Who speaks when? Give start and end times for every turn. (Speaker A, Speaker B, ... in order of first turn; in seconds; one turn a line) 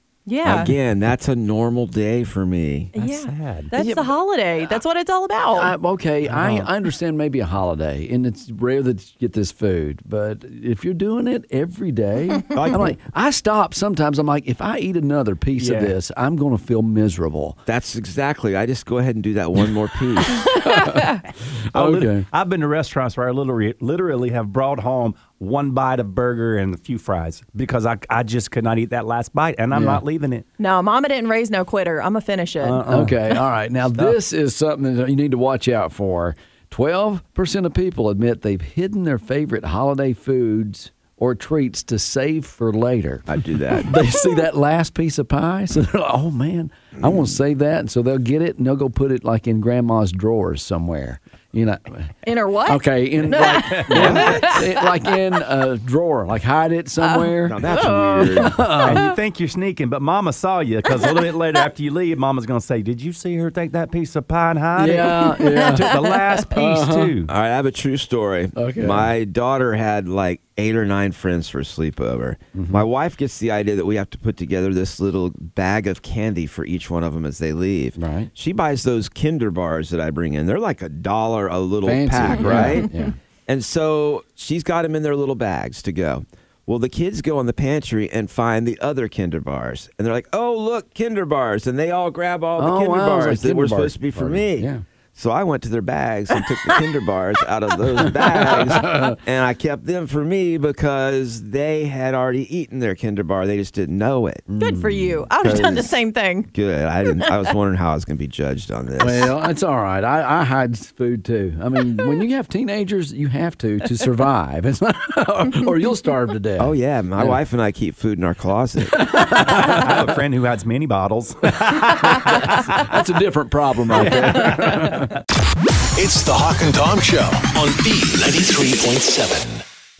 Speaker A: 0.3-0.7
Speaker B: 0.4-2.9
Speaker A: 2.9-5.7
Speaker C: 3.0-3.7
Speaker D: 3.7-4.1
Speaker D: 5.5-17.6
Speaker C: 6.3-6.7
Speaker B: 12.5-12.9
Speaker C: 15.6-15.9
Speaker B: 17.7-20.6
Speaker D: 20.6-21.1
Speaker D: 21.7-22.2
Speaker C: 21.7-30.4
Speaker D: 29.7-30.0
Speaker A: 30.6-32.8
Speaker C: 32.6-33.1
Speaker D: 32.9-52.1
Speaker B: 43.3-44.0
Speaker A: 52.2-54.9
Speaker D: 52.6-57.6
Speaker C: 53.8-54.2
Speaker B: 53.9-54.6
Speaker A: 57.0-59.1
Speaker B: 57.5-58.6
Speaker D: 58.4-59.0
Speaker C: 58.8-67.3
Speaker D: 64.8-67.1
Speaker A: 65.5-66.0
Speaker B: 67.3-82.9
Speaker D: 68.5-69.1
Speaker D: 72.5-72.8
Speaker D: 78.0-78.3
Speaker D: 81.8-83.1
Speaker B: 83.5-104.5
Speaker D: 92.6-94.8
Speaker D: 98.8-99.2
Speaker D: 104.5-105.6
Speaker A: 104.6-106.5
Speaker B: 105.4-106.0
Speaker B: 106.5-109.3
Speaker D: 109.0-117.4
Speaker B: 116.6-119.0
Speaker D: 118.9-120.0
Speaker C: 119.4-122.8
Speaker D: 122.0-125.1
Speaker C: 123.9-125.1
Speaker E: 126.0-129.6